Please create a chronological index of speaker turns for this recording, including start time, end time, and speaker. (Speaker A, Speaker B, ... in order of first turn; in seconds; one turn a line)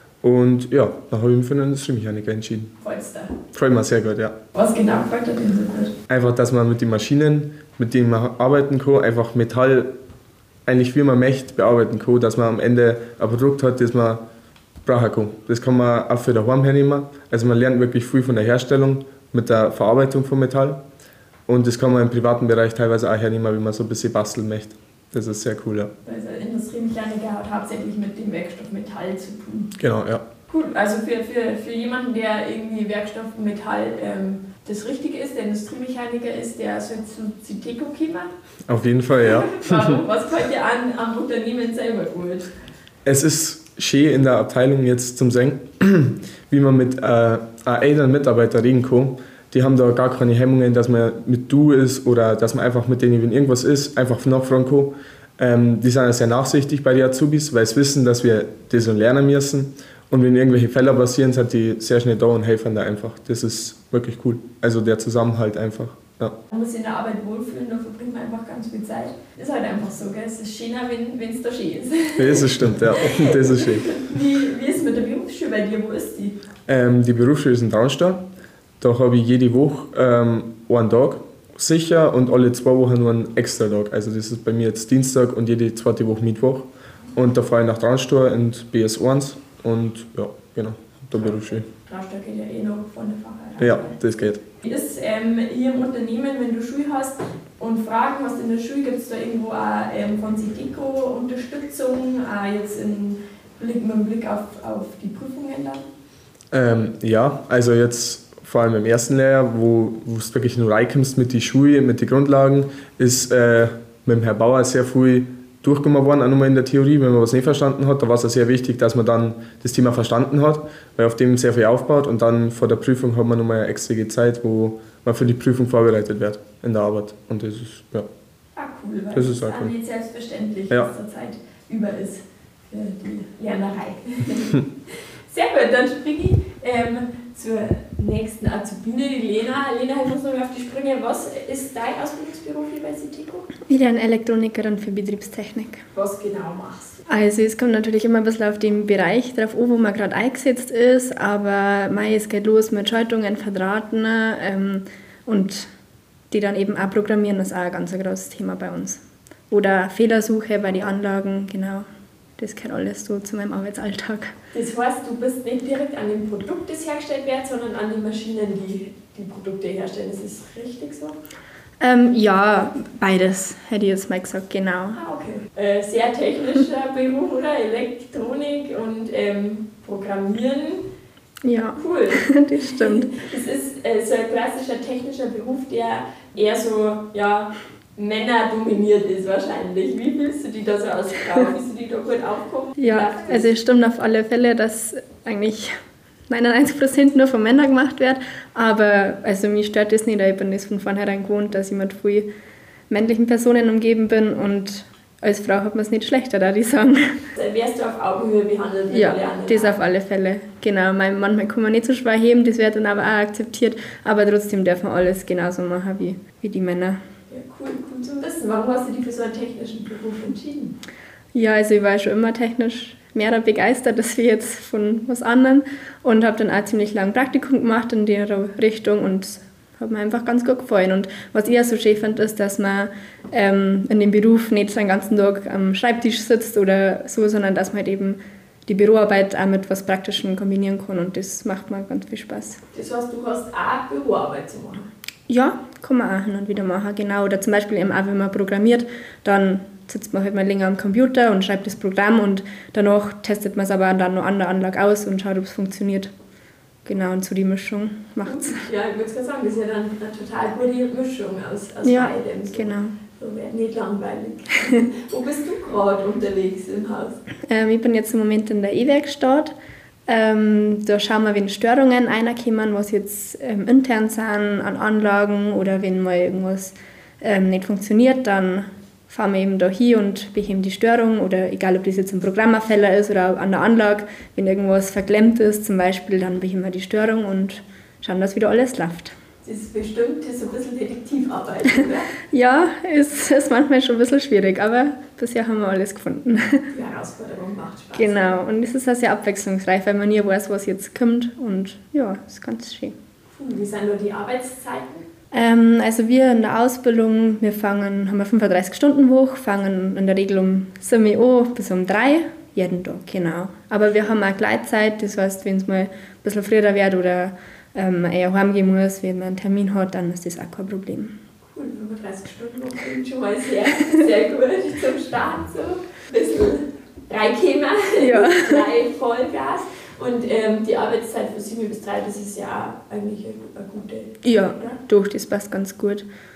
Speaker A: 0.2-2.7
Speaker B: 2.8-3.3
Speaker A: 3.5-4.3
Speaker B: 4.5-5.9
Speaker A: 6.1-9.9
Speaker A: 10.7-14.2
Speaker A: 14.8-20.8
Speaker A: 21.5-25.9
Speaker B: 26.0-29.7
Speaker A: 29.8-30.2
Speaker B: 30.5-38.3
Speaker A: 38.7-40.0
Speaker B: 39.3-42.5
Speaker A: 43.0-66.4
Speaker B: 66.5-76.4
Speaker A: 72.2-73.9
Speaker A: 76.7-78.3
Speaker A: 78.8-91.7
Speaker B: 91.8-93.9
Speaker A: 93.6-94.4
Speaker B: 94.6-105.8
Speaker A: 106.5-128.1
Speaker B: 128.6-143.5
Speaker A: 129.1-129.7
Speaker C: 143.7-145.8
Speaker B: 145.9-147.0
Speaker C: 147.1-155.7
Speaker C: 156.3-161.9
Speaker C: 162.4-164.3
Speaker B: 164.5-171.2
Speaker C: 171.8-175.0
Speaker B: 174.9-180.8
Speaker C: 181.4-183.1
Speaker B: 181.8-193.5
Speaker C: 192.8-195.8
Speaker C: 196.3-202.3
Speaker C: 202.9-207.3
Speaker B: 207.4-209.8
Speaker C: 208.9-217.0
Speaker B: 217.3-220.8
Speaker C: 221.3-242.6
Speaker B: 242.7-244.9
Speaker C: 245.3-256.1
Speaker C: 256.9-258.6
Speaker B: 258.3-267.2
Speaker C: 261.8-262.9
Speaker C: 267.5-269.5
Speaker C: 270.1-289.1
Speaker B: 289.4-292.1
Speaker C: 292.3-296.7
Speaker B: 296.7-298.4
Speaker C: 298.0-302.9
Speaker B: 303.3-305.1
Speaker C: 305.3-321.1
Speaker B: 321.5-334.8
Speaker C: 328.0-328.6
Speaker C: 334.2-336.1